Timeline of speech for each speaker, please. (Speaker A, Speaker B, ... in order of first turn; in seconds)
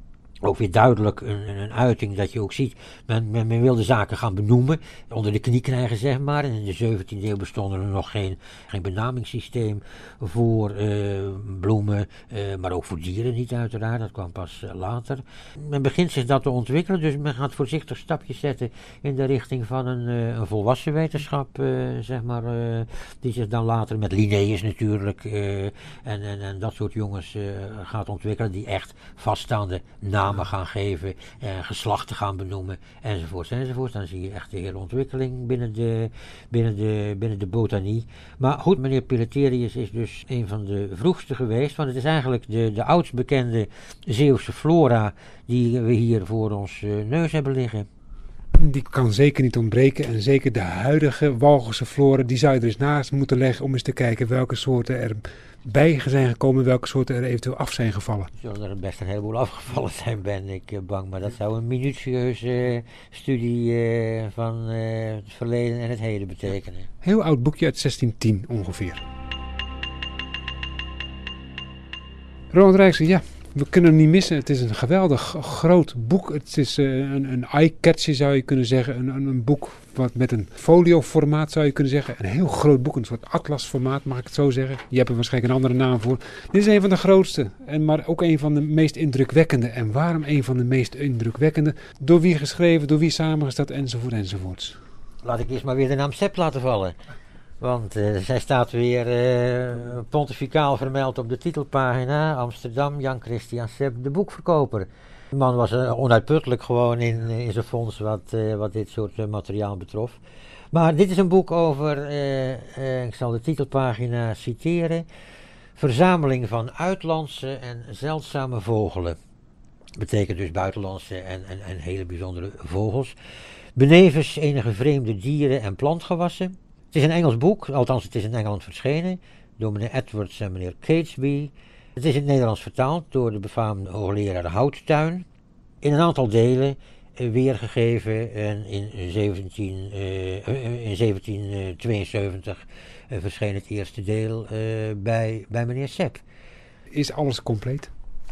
Speaker A: 0.4-47.9, 58.3-66.9, 95.2-97.0, 97.6-110.2, 110.7-115.0, 115.8-119.2, 120.0-123.1, 123.8-135.2, 135.8-146.2
Speaker B: 48.5-58.3, 67.0-69.0, 72.5-94.8, 146.9-147.9